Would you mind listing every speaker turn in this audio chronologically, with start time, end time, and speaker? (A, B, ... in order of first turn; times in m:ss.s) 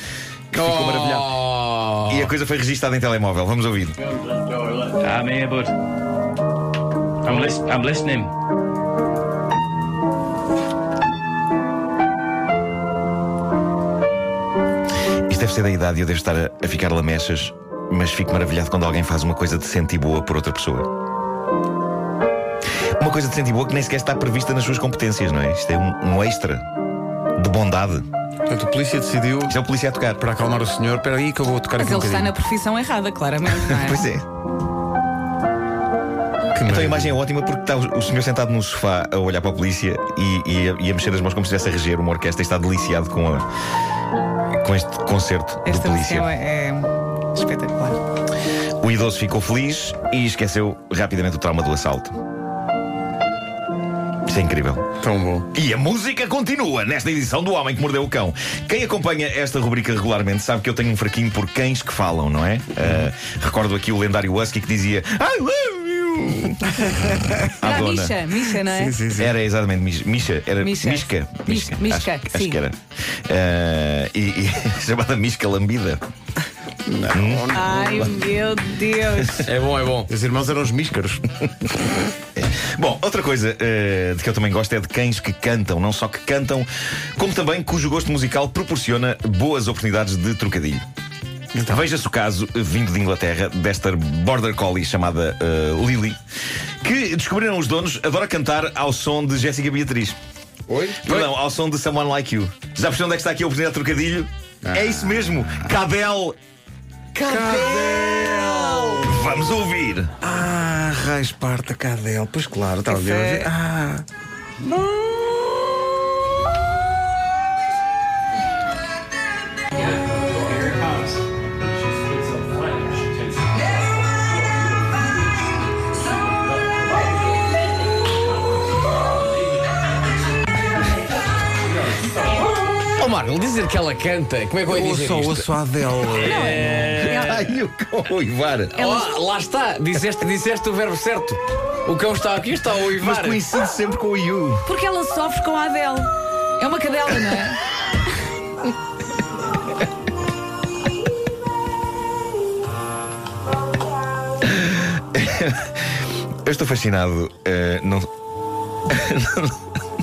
0:00.5-0:01.4 A
0:00.5-0:02.3 B
0:02.1-0:04.0 A
0:04.2-0:05.7 C
0:04.6-0:05.2 B
0:07.2-0:08.3 C
0:07.3-0:07.7 B
0:15.3-0:20.9 A
0:23.0-0:26.6 A
0:27.4-0:28.1 A
0:28.5-0:29.6 D
0:29.5-0:30.2 A
0:30.2-0:32.4 D
0:31.8-0:34.0 E
0:33.6-0:34.2 A
0:36.6-0:37.2 D
0:36.6-0:43.5 A
0:44.6-0:46.3 A
0:45.6-0:48.0 E
0:48.8-0:52.2 A
0:54.3-0:54.8 A
0:55.0-0:55.5 D
0:55.5-1:08.2 A
1:07.6-1:09.0 E
1:08.6-1:09.3 D
1:09.2-1:16.0 A
1:10.6-1:12.6 E
1:16.8-1:18.2 D
1:17.1-1:18.1 A
1:17.5-1:19.5 E
1:19.2-1:19.5 A
1:19.4-1:20.1 B
1:20.1-1:21.4 D
1:22.4-1:30.8 A
1:31.5-1:31.8 D
1:31.6-1:36.2 A
1:36.8-1:40.2 A
1:40.7-1:41.2 D
1:41.0-1:46.4 A
1:44.6-1:45.4 D
1:47.2-1:49.1 D
1:47.2-1:48.0 A
1:48.1-1:48.9 B
1:49.0-1:50.2 A
1:50.2-1:54.0 D
1:52.9-1:53.5 E
1:54.7-1:55.4 D
2:01.7-2:03.5 C
2:06.4-2:06.8 C
2:13.0-2:15.5 B
2:14.7-2:16.9 D
2:16.1-2:17.2 B
2:16.2-2:17.5 E
2:16.7-2:18.8 A
2:18.8-2:19.1 E
2:18.8-2:23.4 B
2:22.9-2:24.7 A
2:24.7-2:27.6 E
2:34.4-2:35.8 A
2:36.4-2:38.1 A
2:38.9-2:39.6 A